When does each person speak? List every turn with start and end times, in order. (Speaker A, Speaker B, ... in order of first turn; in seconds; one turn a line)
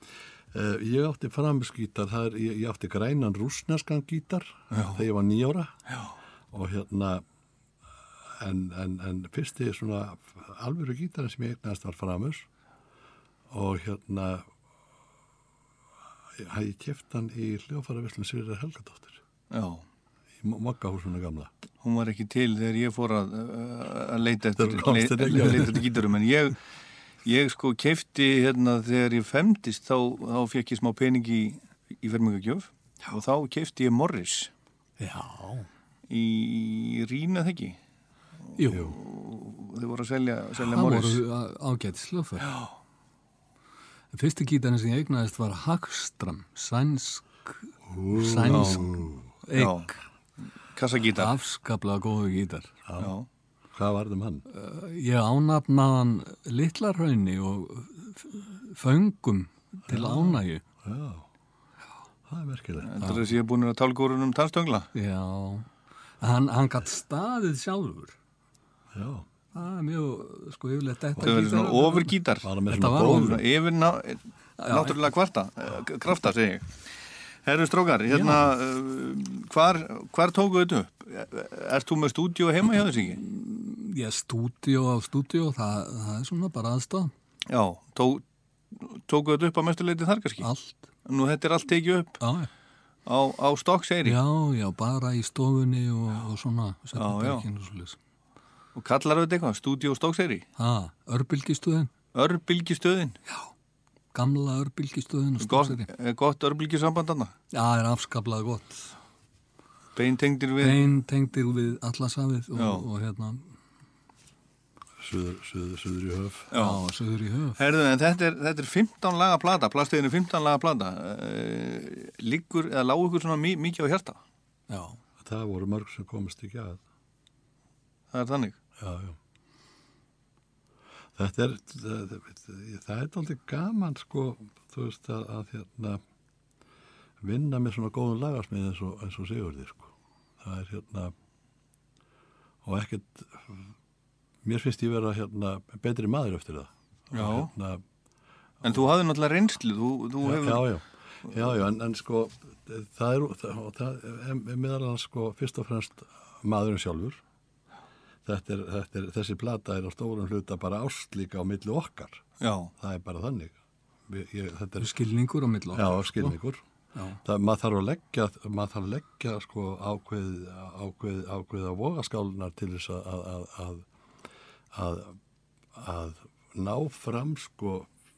Speaker A: 0.5-5.8
Speaker B: 4.7-5.0
Speaker A: 6.5-7.2
Speaker A: 8.4-12.5
Speaker A: 13.5-14.5
Speaker A: 16.4-19.2
Speaker B: 19.5-19.9
Speaker A: 20.4-21.5
Speaker B: 21.8-26.6
Speaker A: 24.6-25.9
Speaker B: 27.2-34.5
Speaker C: 35.0-35.7
Speaker B: 36.1-37.8
Speaker C: 38.6-38.8
Speaker A: 38.7-39.0
Speaker B: 38.7-41.2
Speaker C: 40.6-42.5
Speaker C: 44.1-47.5
Speaker A: 47.9-49.3
Speaker C: 48.1-50.0
Speaker B: 48.5-48.8
Speaker B: 49.5-49.9
Speaker B: 50.7-51.4
Speaker C: 51.2-52.7
Speaker A: 52.9-53.1
Speaker B: 53.0-53.3
Speaker A: 53.7-54.5
Speaker C: 54.5-60.6
Speaker A: 59.9-61.3
Speaker A: 62.3-63.2
Speaker B: 62.8-64.9
Speaker C: 64.9-65.7
Speaker C: 66.2-68.1
Speaker A: 68.9-69.3
Speaker C: 69.5-73.4
Speaker A: 71.2-71.4
Speaker B: 71.2-76.9
Speaker A: 72.4-73.4
Speaker C: 74.6-75.0
Speaker B: 77.4-83.2
Speaker C: 78.1-78.4
Speaker C: 83.2-87.1
Speaker B: 87.5-90.5
Speaker C: 90.4-90.8
Speaker B: 91.0-92.2
Speaker C: 92.2-92.5
Speaker B: 93.1-94.2
Speaker C: 94.0-98.0
Speaker B: 96.9-97.5
Speaker B: 98.7-100.5
Speaker C: 100.6-101.9
Speaker B: 102.1-103.2
Speaker C: 104.1-105.9
Speaker B: 105.4-107.3
Speaker C: 107.5-108.9
Speaker B: 110.0-110.9
Speaker C: 110.6-113.5
Speaker B: 112.5-112.8
Speaker A: 115.0-116.5
Speaker B: 116.5-116.8
Speaker C: 116.6-117.6
Speaker B: 117.6-124.2
Speaker C: 124.7-125.0
Speaker A: 125.2-126.8
Speaker B: 128.1-128.6
Speaker A: 128.8-129.2
Speaker A: 131.2-136.0
Speaker A: 137.2-141.1
Speaker A: 142.6-143.7
Speaker A: 144.4-147.8
Speaker B: 147.1-147.5
Speaker B: 148.6-150.7
Speaker A: 150.2-157.2
Speaker A: 158.2-162.2
Speaker B: 162.4-162.7
Speaker A: 162.8-164.9
Speaker C: 164.8-166.3
Speaker A: 165.7-166.6
Speaker A: 167.2-173.9
Speaker A: 174.7-175.2
Speaker A: 175.7-177.9